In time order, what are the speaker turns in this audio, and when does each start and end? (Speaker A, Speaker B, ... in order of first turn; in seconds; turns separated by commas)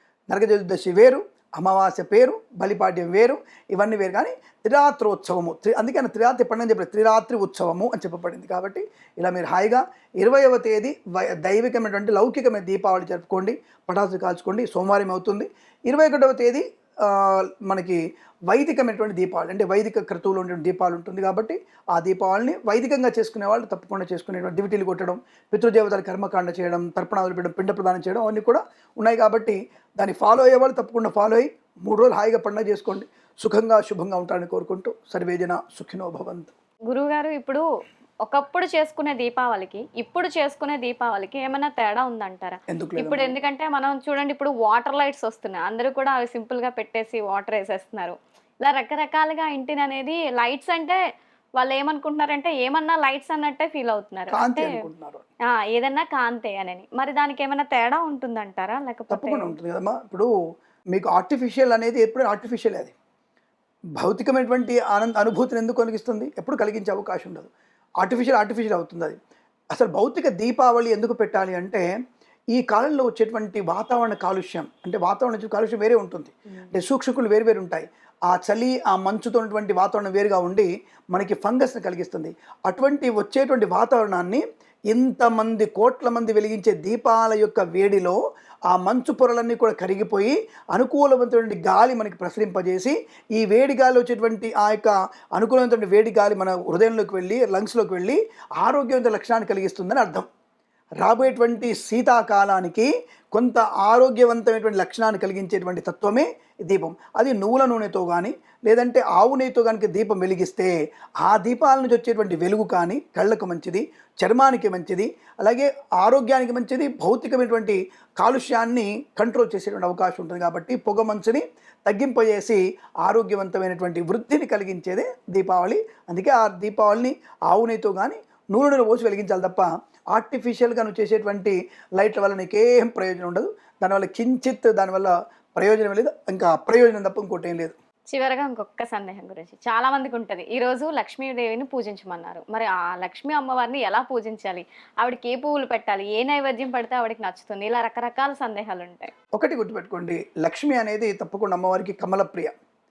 Speaker A: 0.3-36.5, Speaker B: 36.9-37.6, Speaker B: 38.2-51.0, Speaker A: 42.7-43.3, Speaker B: 51.6-54.8, Speaker A: 54.3-55.2, Speaker B: 55.5-59.5, Speaker A: 59.1-60.3, Speaker A: 60.9-62.9, Speaker A: 64.0-67.5, Speaker A: 68.0-69.2, Speaker A: 69.7-71.8, Speaker A: 72.5-100.3, Speaker A: 101.0-110.7, Speaker A: 111.2-137.7, Speaker B: 138.1-149.1, Speaker A: 149.3-152.6